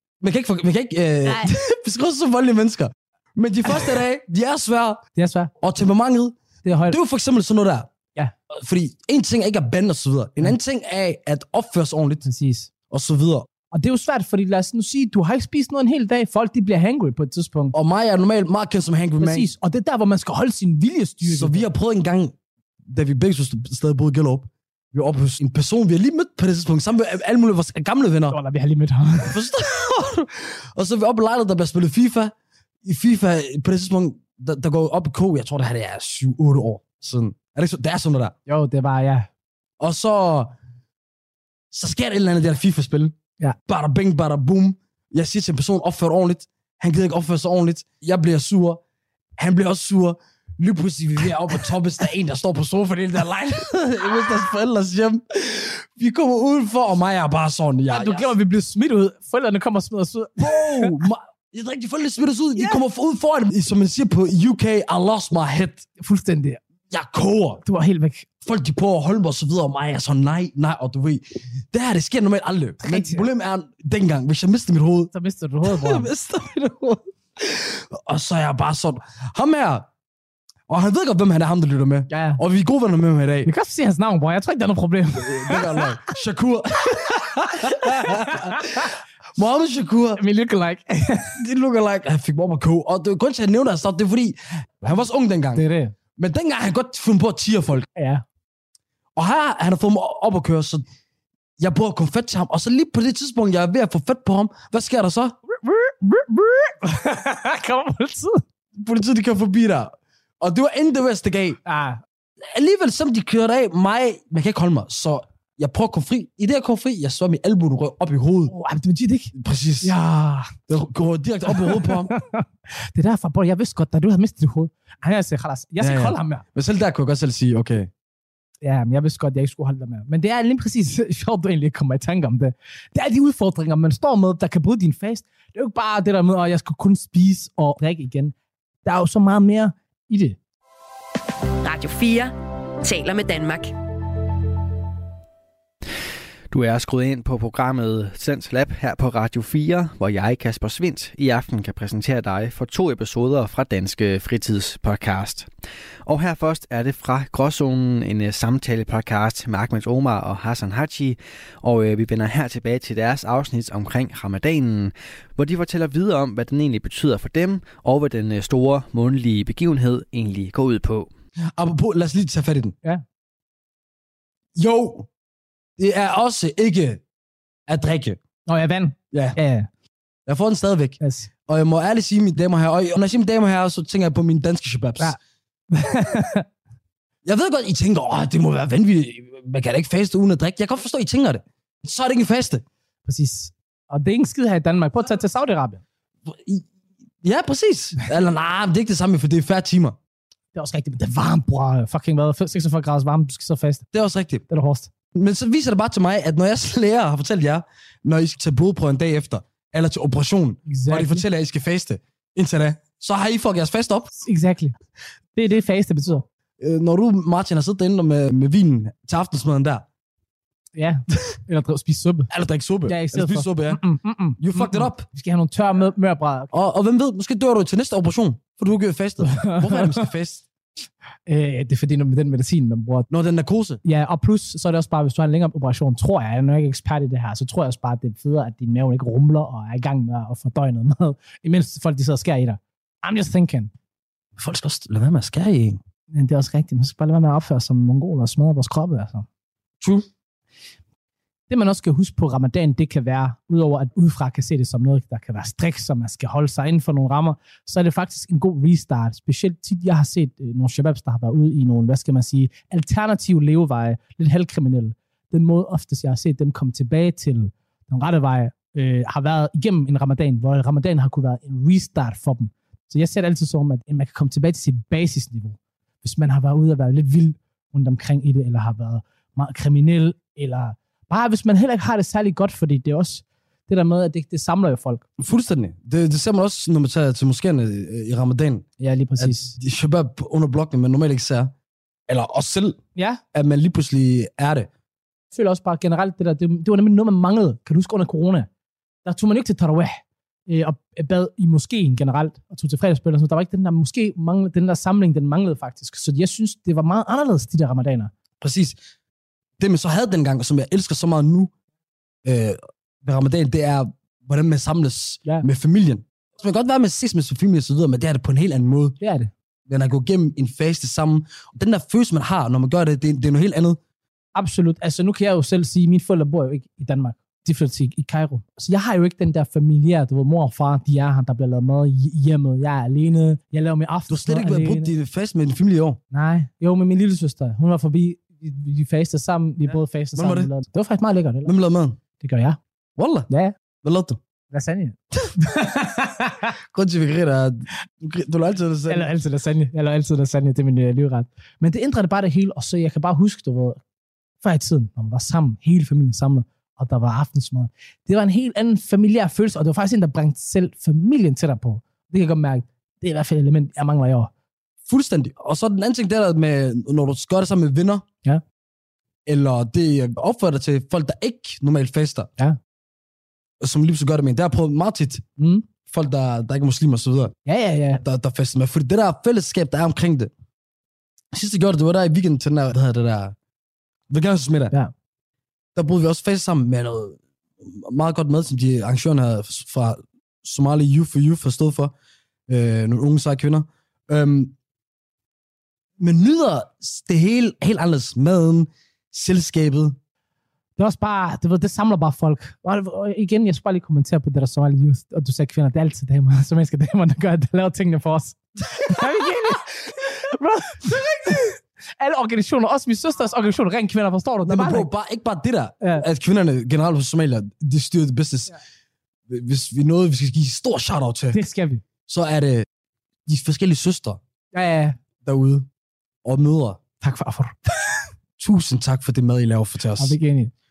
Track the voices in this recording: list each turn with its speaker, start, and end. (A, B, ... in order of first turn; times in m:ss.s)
0:00.2-0:05.0 A
0:05.2-0:05.5 B
0:05.6-0:06.4 A
0:06.6-0:07.0 B
0:06.9-0:07.9 A
0:08.5-0:12.2 A
0:12.2-0:12.7 B
0:12.9-0:13.5 A
0:13.7-0:17.7 B
0:17.7-0:19.5 A
0:19.2-0:21.7 B
0:21.2-0:22.3 A
0:22.9-0:28.4 A
0:28.3-0:29.4 B
0:29.2-0:38.3 A
0:38.5-0:39.3 B
0:39.8-0:40.5 A
0:41.7-0:43.2 A
0:43.7-0:48.8 A
0:49.4-0:58.3 A
0:57.9-1:01.0 B
1:00.4-1:05.8 A
1:06.0-1:06.6 B
1:06.9-1:07.6 A
1:07.6-1:08.3 B
1:08.4-1:15.1 A
1:12.8-1:13.2 B
1:15.1-1:16.1 B
1:15.6-1:19.9 A
1:20.7-1:23.5 A
1:22.1-1:22.4 B
1:23.4-1:25.9 B
1:25.2-1:30.2 A
1:27.4-1:28.9 B
1:30.2-1:31.4 B
1:31.4-1:35.6 A
1:35.5-1:35.9 B
1:36.2-1:37.9 A
1:38.0-1:38.2 B
1:39.2-1:40.8 A
1:41.6-1:45.4 A
1:45.5-1:48.4 B
1:48.8-1:51.6 A
1:51.6-1:52.0 B
1:52.5-1:58.5 A
1:58.5-2:00.5 B
1:59.3-1:59.9 A
2:00.7-2:02.1 A
2:01.5-2:06.4 B
2:05.8-2:07.9 A
2:08.6-2:18.3 B
2:18.8-2:20.4 B
2:21.6-2:23.7 C
2:26.5-2:35.5 D
2:36.0-2:51.1 D
2:51.6-2:52.8 A
2:54.5-2:55.1 A
2:55.8-2:57.0 A
2:57.7-2:58.2 A
2:58.5-2:59.7 B
2:59.1-2:59.4 A
3:00.2-3:05.2 A
3:01.0-3:01.3 B
3:05.7-3:06.4 B
3:07.2-3:12.6 A
3:13.0-3:15.8 B
3:16.2-3:16.7 A
3:17.2-3:20.0 A
3:20.5-3:23.8 B
3:23.9-3:24.4 A
3:24.5-3:24.9 B
3:25.1-3:34.1 A
3:30.7-3:31.2 B
3:34.2-3:34.8 B
3:35.4-3:36.2 B
3:36.6-3:39.8 A
3:40.7-3:42.3 B
3:42.3-3:43.8 A
3:42.8-3:46.5 B
3:44.4-3:45.0 A
3:46.5-3:50.4 A
3:49.2-3:50.0 B
3:51.3-3:53.1 B
3:53.1-3:53.8 A
3:53.8-4:03.7 B
4:04.4-4:05.8 A
4:06.1-4:09.2 B
4:09.8-4:10.1 A
4:11.5-4:45.0 B
4:45.2-4:51.5 A
4:48.8-4:49.6 B
4:52.1-4:52.8 A
4:53.0-4:53.2 B
4:53.3-4:54.7 A
4:55.3-4:58.5 B
4:59.0-5:08.1 B
5:08.4-5:08.8 A
5:09.6-5:11.5 A
5:12.2-5:19.0 A
5:19.0-5:19.3 B
5:19.7-5:23.8 A
5:24.3-5:34.9 B
5:34.1-5:36.0 A
5:36.1-5:41.5 B
5:39.6-5:40.5 A
5:41.4-5:42.0 A
5:42.2-5:42.6 B
5:43.0-5:43.3 A
5:43.3-5:43.5 B
5:43.8-5:44.2 A
5:44.5-5:46.5 B
5:46.7-5:49.1 A
5:48.9-5:53.8 B
5:54.4-6:04.3 B
6:04.9-6:08.0 A
6:09.2-6:12.3 A
6:13.6-6:15.2 A
6:15.4-6:15.6 B
6:15.8-6:17.3 A
6:17.4-6:18.0 B
6:18.0-6:20.3 A
6:21.3-6:23.3 A
6:24.1-6:24.7 A
6:25.7-6:31.9 A
6:32.5-6:34.6 A
6:36.0-6:40.0 A
6:40.8-6:54.9 B
6:48.8-6:49.0 A
6:54.4-6:58.5 A
6:59.3-7:01.4 A
7:01.3-7:01.8 B
7:02.1-7:02.6 A
7:03.3-7:04.2 A
7:04.5-7:05.0 B
7:05.2-7:05.7 A
7:06.2-7:06.8 A
7:07.0-7:08.1 B
7:08.4-7:10.2 A
7:10.0-7:10.5 B